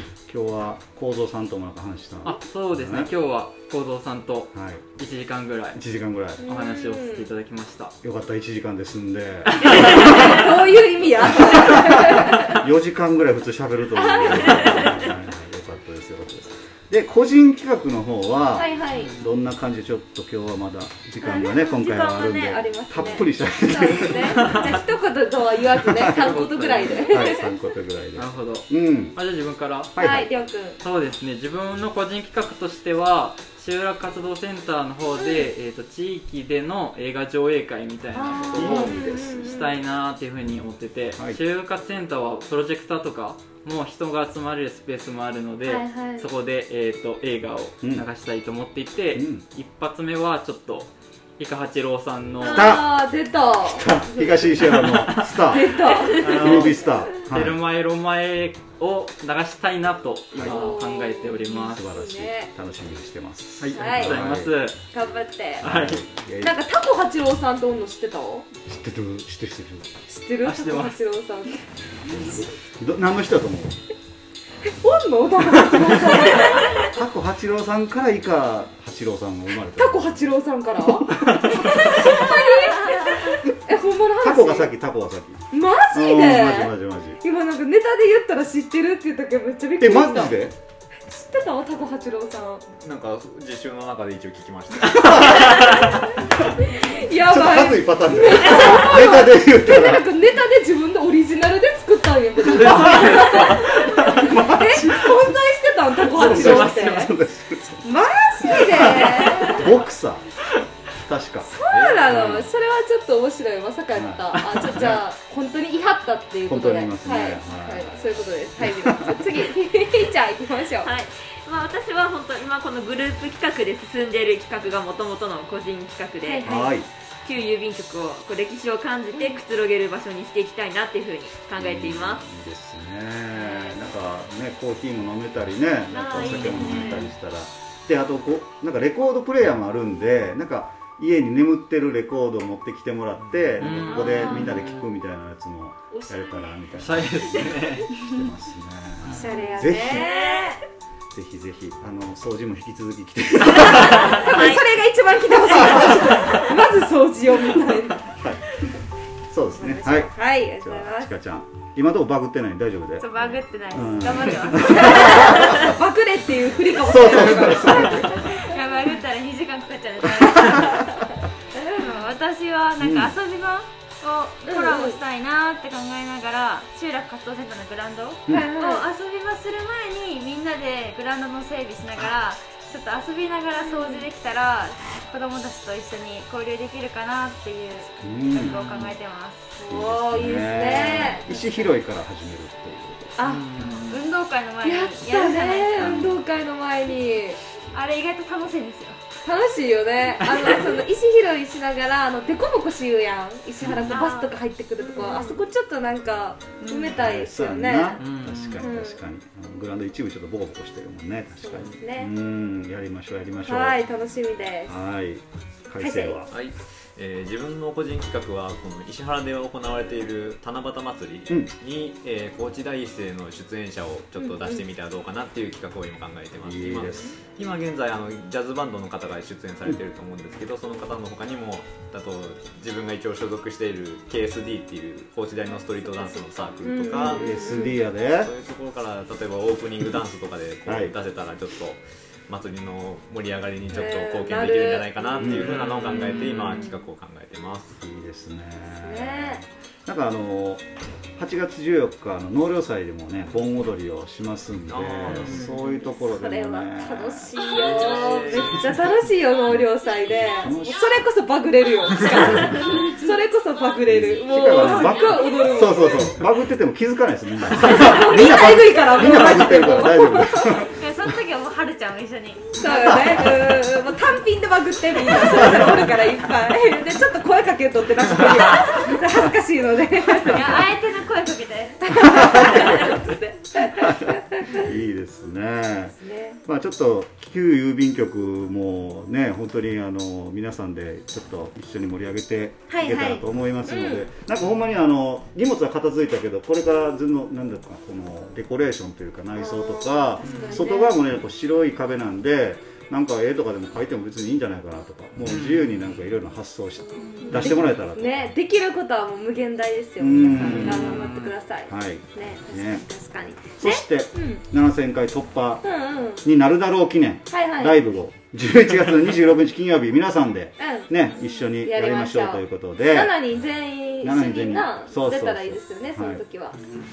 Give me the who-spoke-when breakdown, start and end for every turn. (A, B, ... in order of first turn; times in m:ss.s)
0:00.3-0:03.1 A
0:02.2-0:05.8 B
0:04.5-0:05.0 A
0:05.7-0:06.4 A
0:06.4-0:07.3 C
0:06.4-0:07.9 B
0:08.0-0:10.3 A
0:09.6-0:12.6 C
0:11.4-0:24.5 A
0:13.9-0:15.1 C
0:18.6-0:19.1 C
0:21.2-0:21.8 C
0:21.7-0:22.6 D
0:22.4-0:27.5 C
0:25.8-0:26.3 A
0:26.1-0:27.3 B
0:27.1-0:29.2 A
0:28.2-0:30.2 B
0:30.0-0:30.3 A
0:30.0-0:30.8 C
0:30.8-0:52.7 B
0:35.2-0:35.5 C
0:38.2-0:39.8 C
0:38.4-0:39.4 A
0:45.6-0:46.3 C
0:49.1-0:49.4 A
0:52.4-0:54.5 C
0:52.4-0:53.0 A
0:53.8-0:57.6 A
0:54.6-0:55.5 B
0:55.5-0:56.9 C
0:56.2-1:01.8 B
1:00.3-1:00.6 A
1:00.4-1:02.5 C
1:01.7-1:04.6 A
1:03.6-1:04.8 B
1:03.7-1:04.2 C
1:04.9-1:05.6 C
1:05.6-1:06.0 B
1:05.6-1:06.5 A
1:06.4-1:08.5 C
1:08.6-1:09.9 A
1:10.1-1:12.5 C
1:10.4-1:11.0 B
1:12.1-1:13.8 A
1:14.6-1:16.8 C
1:16.8-1:20.2 A
1:19.7-1:24.7 C
1:21.0-1:21.7 A
1:22.1-1:23.3 D
1:24.2-1:25.4 A
1:25.5-1:30.4 C
1:25.9-1:27.2 A
1:29.8-1:30.5 A
1:31.0-1:32.6 C
1:32.8-1:35.6 E
1:34.9-1:35.6 A
1:35.2-1:47.1 C
1:37.3-1:40.0 A
1:42.6-1:44.3 B
1:44.0-1:45.2 A
1:46.1-1:47.1 B
1:46.1-1:47.8 A
1:47.8-1:49.8 C
1:48.5-1:50.3 A
1:51.0-1:51.5 A
1:51.4-2:00.9 C
1:51.7-1:52.3 E
1:52.1-1:52.5 A
1:53.9-1:55.0 A
1:54.5-1:54.9 B
1:56.5-1:57.9 A
1:58.6-1:59.2 A
2:00.8-2:06.5 D
2:06.2-2:06.8 C
2:06.4-2:06.9 A
2:07.2-2:12.2 D
2:11.6-2:30.1 A
2:13.3-2:13.8 D
2:15.9-2:17.1 D
2:23.6-2:24.8 B
2:23.9-2:24.4 D
2:25.9-2:26.6 D
2:26.8-2:28.0 B
2:29.0-2:29.5 B
2:29.1-2:30.6 C
2:29.6-2:30.6 D
2:31.1-2:34.5 A
2:33.6-2:38.0 C
2:33.9-2:34.2 B
2:34.3-2:34.7 D
2:38.1-2:38.5 A
2:39.3-2:45.7 A
2:39.5-2:41.1 C
2:43.0-2:45.2 F
2:44.5-2:48.5 C
2:46.7-2:48.2 A
2:48.3-2:50.8 F
2:51.8-3:09.5 F
2:52.8-2:53.2 A
2:54.4-2:55.0 C
2:58.3-2:58.8 C
3:03.6-3:04.1 C
3:08.0-3:08.6 A
3:08.3-3:09.0 B
3:09.6-3:11.7 C
3:09.7-3:13.1 A
3:13.2-3:13.5 C
3:13.2-3:14.1 B
3:13.9-3:16.1 F
3:14.6-3:17.4 C
3:17.7-3:19.0 F
3:19.2-3:28.0 C
3:20.2-3:20.5 B
3:23.6-3:24.0 A
3:23.9-3:25.4 F
3:26.6-3:27.0 F
3:26.9-3:33.8 A
3:28.0-3:28.6 B
3:28.6-3:29.0 C
3:31.4-3:32.1 C
3:33.4-3:34.7 C
3:34.7-3:36.3 A
3:35.8-3:36.3 C
3:36.3-3:57.2 E
3:44.2-3:44.6 C
3:46.4-3:47.2 A
3:55.8-3:57.8 C
3:56.9-3:58.3 A
3:58.1-4:07.7 E
4:00.6-4:01.0 A
4:03.7-4:06.8 C
4:05.2-4:05.5 A
4:05.5-4:06.5 B
4:07.8-4:10.6 A
4:08.8-4:09.4 C
4:11.2-4:17.4 A
4:14.7-4:15.6 E
4:15.1-4:15.5 B
4:15.6-4:26.2 C
4:17.4-4:18.6 E
4:19.5-4:21.0 A
4:22.0-4:22.8 A
4:23.9-4:30.8 A
4:27.6-4:30.7 C
4:30.8-4:32.5 F
4:32.6-4:40.7 C
4:32.6-4:33.5 A
4:35.2-4:35.9 A
4:40.3-4:41.8 F
4:41.8-4:44.6 C
4:42.2-4:42.8 A
4:43.7-5:08.3 A
4:46.0-4:46.4 C
4:52.7-4:54.1 C
4:59.3-5:01.0 C
5:00.2-5:00.6 B
5:05.3-5:05.9 B
5:06.9-5:14.4 C
5:07.2-5:07.4 B
5:10.0-5:11.0 A
5:10.4-5:11.3 B
5:11.7-5:12.8 A
5:13.6-5:15.6 A
5:15.6-5:16.2 C
5:16.2-5:23.2 A
5:17.3-5:17.9 C
5:20.6-5:20.9 C
5:21.4-5:26.6 C
5:24.0-5:26.2 A